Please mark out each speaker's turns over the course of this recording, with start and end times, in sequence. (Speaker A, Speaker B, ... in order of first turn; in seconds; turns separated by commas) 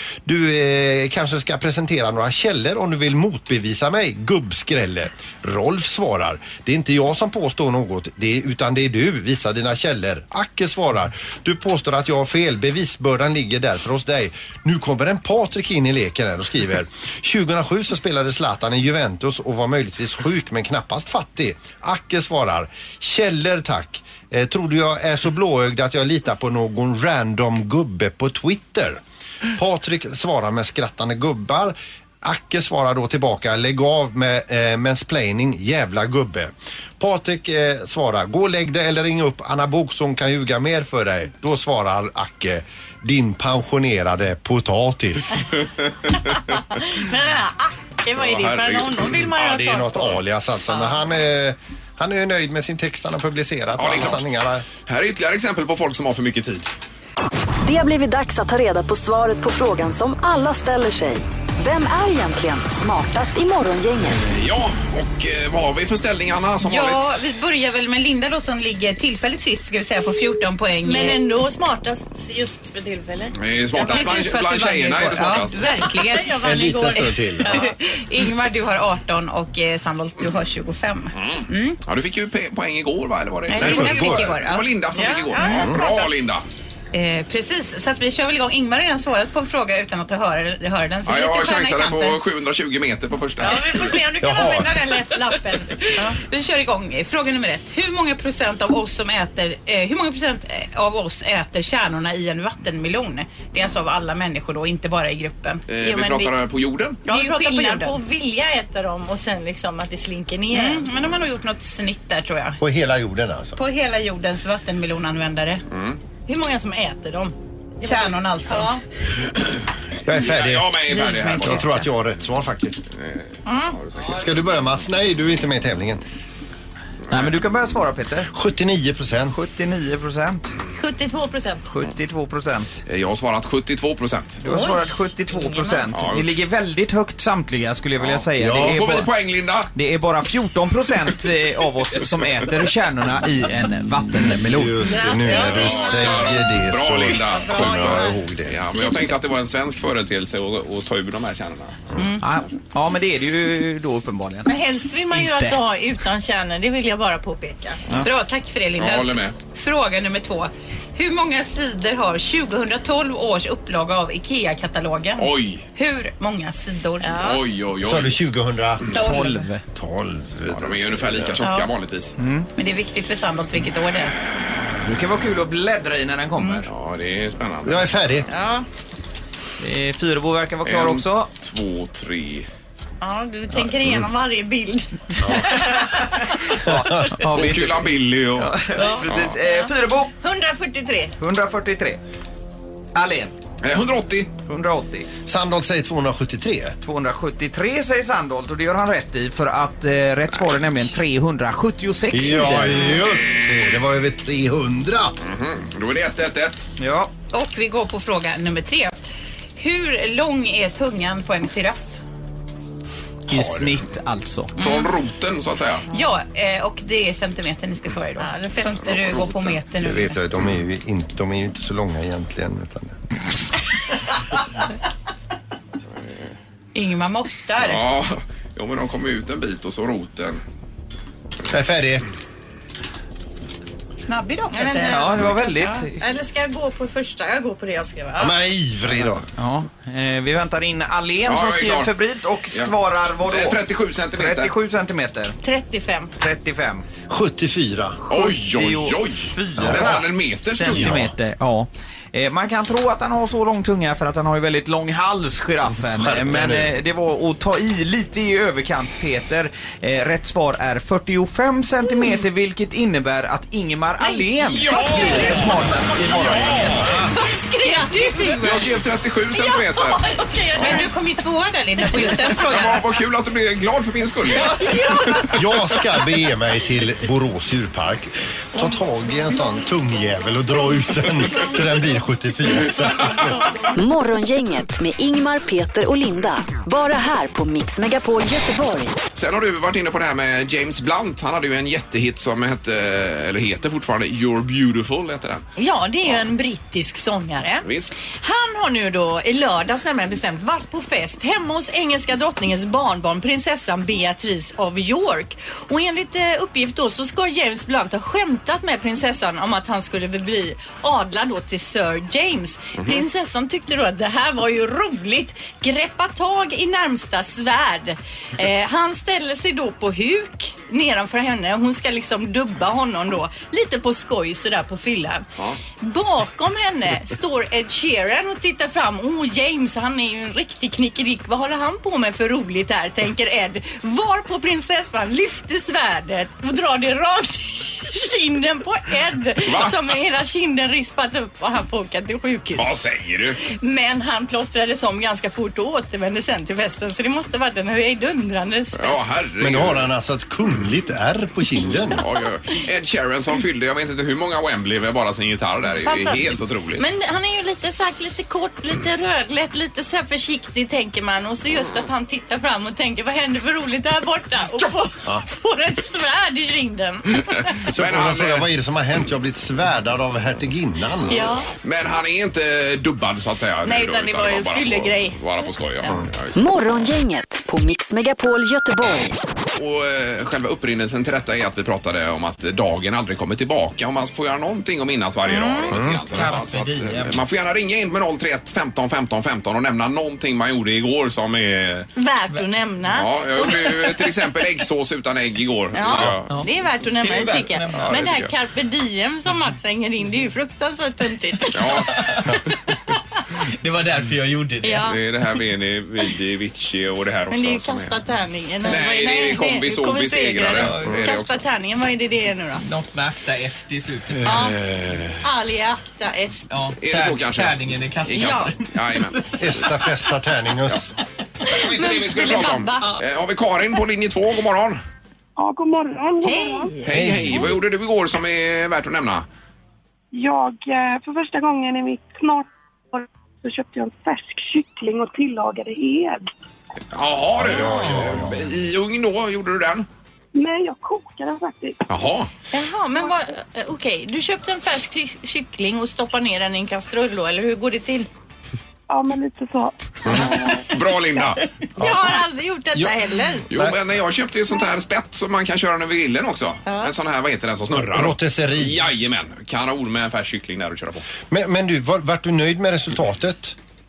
Speaker A: 0.2-29.0, Speaker A: 29.6-45.5, Speaker B: 46.8-50.2, Speaker C: 48.2-49.3, Speaker A: 49.3-54.7, Speaker B: 50.7-51.0, Speaker C: 53.8-54.2, Speaker C: 54.9-56.7, Speaker D: 57.6-64.3, Speaker C: 64.3-67.2, Speaker E: 66.6-71.2, Speaker B: 70.8-74.3, Speaker C: 73.4-75.7, Speaker E: 73.8-76.4, Speaker B: 75.9-77.7, Speaker A: 76.4-77.6, Speaker E: 76.9-81.8, Speaker C: 81.2-86.5, Speaker E: 83.5-85.6, Speaker A: 83.6-84.3, Speaker B: 85.0-86.1, Speaker A: 85.5-85.8, Speaker E: 86.9-92.2, Speaker C: 91.1-93.9, Speaker B: 93.4-96.2, Speaker E: 93.7-94.6, Speaker A: 94.2-94.8, Speaker E: 95.8-105.7, Speaker C: 105.7-107.0, Speaker B: 105.8-106.3, Speaker B: 107.1-110.9, Speaker E: 107.1-108.0, Speaker E: 110.5-112.6, Speaker A: 112.6-113.6, Speaker E: 113.6-115.6, Speaker C: 115.7-116.0, Speaker B: 116.3-118.8, Speaker E: 117.8-118.8, Speaker A: 120.0-122.8, Speaker C: 120.1-121.7, Speaker E: 120.9-121.7, Speaker C: 123.0-123.2, Speaker B: 123.5-123.8, Speaker C: 123.8-124.1, Speaker A: 124.0-126.0, Speaker F: 127.1-128.3, Speaker A: 128.3-129.3, Speaker F: 129.3-130.6, Speaker B: 130.8-131.7, Speaker F: 131.7-132.8, Speaker C: 132.9-134.4, Speaker F: 134.4-139.1, Speaker C: 135.9-136.3, Speaker C: 138.0-139.7, Speaker A: 138.4-138.8, Speaker F: 139.7-144.8, Speaker A: 144.4-148.6, Speaker B: 144.9-146.5, Speaker C: 145.3-151.8, Speaker B: 147.1-148.2, Speaker F: 152.2-154.5, Speaker B: 154.5-157.8, Speaker F: 155.1-155.6, Speaker E: 158.0-167.4, Speaker C: 158.8-159.3, Speaker C: 165.2-165.7, Speaker B: 167.0-167.3, Speaker C: 167.1-168.2, Speaker A: 167.8-169.0, Speaker F: 168.9-169.6, Speaker E: 169.0-169.4, Speaker A: 169.7-171.4, Speaker C: 170.5-172.2, Speaker F: 172.2-172.5, Speaker E: 172.6-174.1, Speaker F: 174.8-176.7, Speaker C: 176.7-178.0, Speaker A: 177.7-178.3, Speaker B: 178.3-178.7, Speaker F: 179.6-181.3, Speaker C: 180.7-182.5, Speaker B: 183.0-185.9, Speaker F: 185.3-190.1, Speaker A: 186.7-187.2, Speaker C: 187.3-189.3, Speaker B: 188.8-189.7, Speaker B: 190.2-191.2, Speaker F: 191.2-192.0, Speaker F: 192.9-193.3, Speaker C: 193.6-194.3, Speaker F: 194.5-195.1, Speaker A: 195.3-196.8, Speaker F: 196.8-202.8, Speaker A: 202.1-205.2, Speaker C: 205.2-206.7, Speaker F: 206.8-207.1, Speaker E: 207.3-209.0, Speaker E: 209.6-212.0, Speaker F: 213.3-214.5, Speaker C: 213.3-213.8, Speaker C: 214.6-215.9, Speaker E: 214.6-214.9, Speaker E: 215.9-220.2, Speaker C: 218.8-219.6, Speaker A: 219.8-223.0, Speaker E: 226.8-227.8, Speaker C: 227.6-230.4, Speaker A: 231.5-232.1, Speaker E: 234.1-235.9, Speaker B: 234.5-238.4, Speaker F: 234.9-236.0, Speaker A: 238.2-239.3, Speaker F: 239.4-243.6, Speaker C: 241.3-241.9, Speaker C: 242.5-244.5, Speaker F: 244.1-245.4, Speaker B: 245.4-246.1, Speaker F: 246.2-246.9, Speaker A: 247.1-248.0, Speaker C: 248.1-251.0, Speaker F: 248.1-266.9, Speaker A: 249.6-250.0, Speaker A: 255.9-256.7, Speaker C: 264.5-265.4, Speaker B: 266.1-268.8, Speaker C: 266.2-266.8, Speaker E: 267.1-268.7, Speaker C: 268.4-270.0, Speaker B: 269.3-270.9, Speaker E: 270.5-272.9, Speaker B: 272.0-272.3, Speaker C: 272.4-275.4, Speaker E: 274.4-275.2, Speaker B: 274.6-275.2, Speaker A: 275.3-283.4, Speaker D: 283.7-289.0, Speaker C: 289.1-295.4, Speaker B: 295.6-325.3, Speaker C: 297.6-298.0, Speaker C: 312.8-313.0, Speaker B: 325.8-342.8, Speaker C: 339.4-339.8, Speaker C: 342.6-343.4, Speaker B: 343.4-349.1, Speaker C: 348.7-349.9, Speaker A: 349.4-352.0, Speaker C: 351.9-356.9, Speaker B: 355.8-367.5, Speaker C: 367.6-368.5, Speaker A: 367.7-371.3, Speaker B: 371.1-371.5, Speaker C: 371.6-376.4, Speaker B: 373.6-375.9, Speaker D: 376.4-379.1, Speaker C: 379.6-391.9, Speaker B: 385.2-385.8, Speaker A: 385.7-386.0, Speaker F: 386.1-387.2, Speaker B: 392.0-394.3, Speaker C: 392.9-396.3, Speaker B: 395.7-402.1, Speaker F: 396.3-397.9, Speaker C: 397.7-398.3, Speaker C: 401.5-402.0, Speaker F: 401.9-402.4, Speaker F: 403.6-404.9, Speaker B: 404.6-405.0, Speaker C: 404.9-408.0, Speaker B: 407.3-412.6, Speaker C: 408.6-411.4, Speaker F: 410.5-411.1, Speaker F: 412.6-414.4, Speaker B: 414.2-414.6, Speaker C: 414.2-415.2, Speaker B: 415.2-416.5, Speaker F: 416.5-419.2, Speaker C: 416.8-419.6, Speaker B: 418.2-418.5, Speaker A: 419.4-420.9, Speaker C: 421.5-424.8, Speaker B: 421.5-422.9, Speaker G: 425.4-426.8, Speaker B: 426.2-426.8, Speaker C: 426.8-429.2, Speaker A: 426.9-427.6, Speaker G: 430.1-436.3, Speaker C: 436.9-439.9, Speaker A: 437.4-438.5, Speaker G: 440.3-442.1, Speaker C: 441.9-442.3, Speaker B: 442.5-448.1, Speaker G: 448.9-450.7, Speaker A: 450.1-450.3, Speaker C: 450.1-451.4, Speaker A: 451.8-452.2, Speaker B: 451.8-453.5, Speaker A: 453.5-453.8, Speaker C: 453.5-461.1, Speaker B: 456.7-456.9, Speaker A: 457.8-458.9, Speaker A: 461.3-463.6